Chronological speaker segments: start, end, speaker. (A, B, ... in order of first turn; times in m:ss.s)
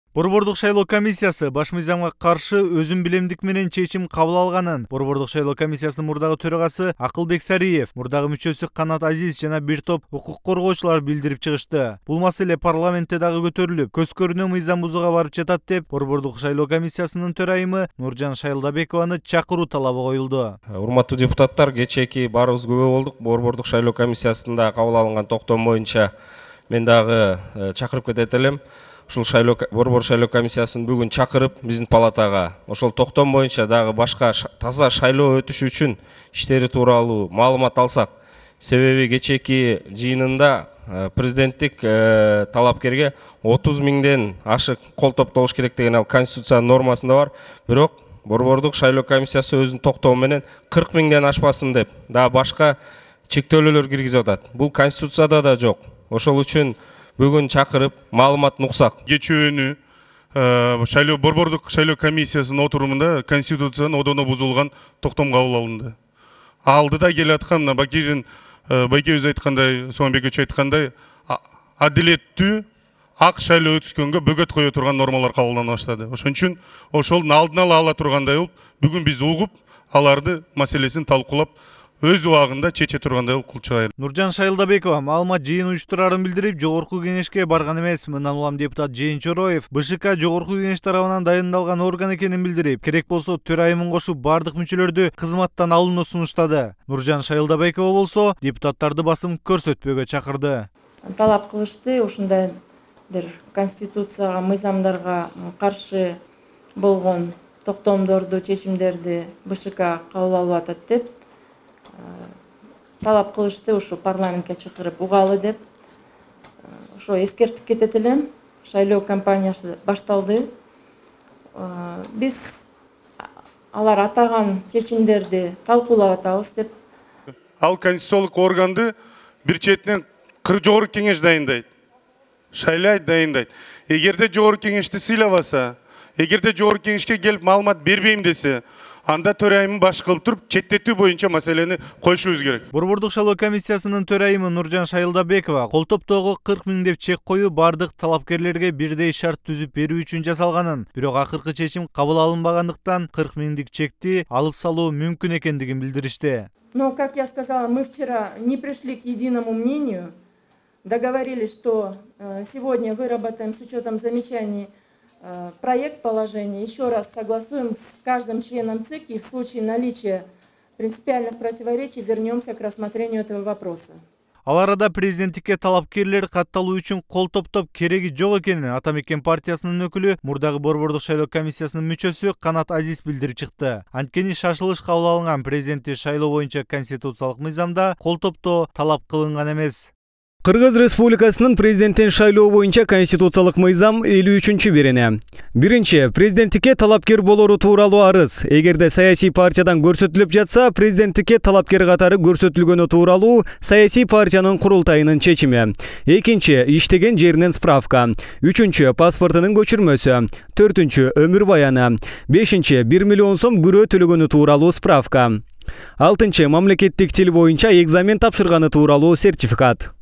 0:00.1-0:20.6 A
0:20.7-0:26.1 B
0:26.7-0:52.8 B
0:53.3-0:59.0 B
0:59.1-0:59.8 C
1:00.3-1:05.9 C
1:06.6-1:12.6 C
1:13.2-1:23.9 C
1:24.0-1:40.7 A
1:41.1-1:42.5 D
1:43.1-1:46.0 D
1:46.8-1:51.1 D
1:52.0-1:52.3 D
1:53.0-1:55.6 D
1:57.0-2:00.4 D
2:01.6-2:02.6 D
2:03.7-2:06.7 D
2:07.6-2:08.9 C
2:09.4-2:11.6 C
2:12.5-2:22.6 C
2:22.7-2:36.5 A
2:36.7-2:40.1 D
2:40.8-2:44.7 D
2:45.2-2:50.2 D
2:50.8-2:54.0 D
2:54.4-3:09.9 A
3:10.4-3:35.4 E
3:36.0-3:39.9 E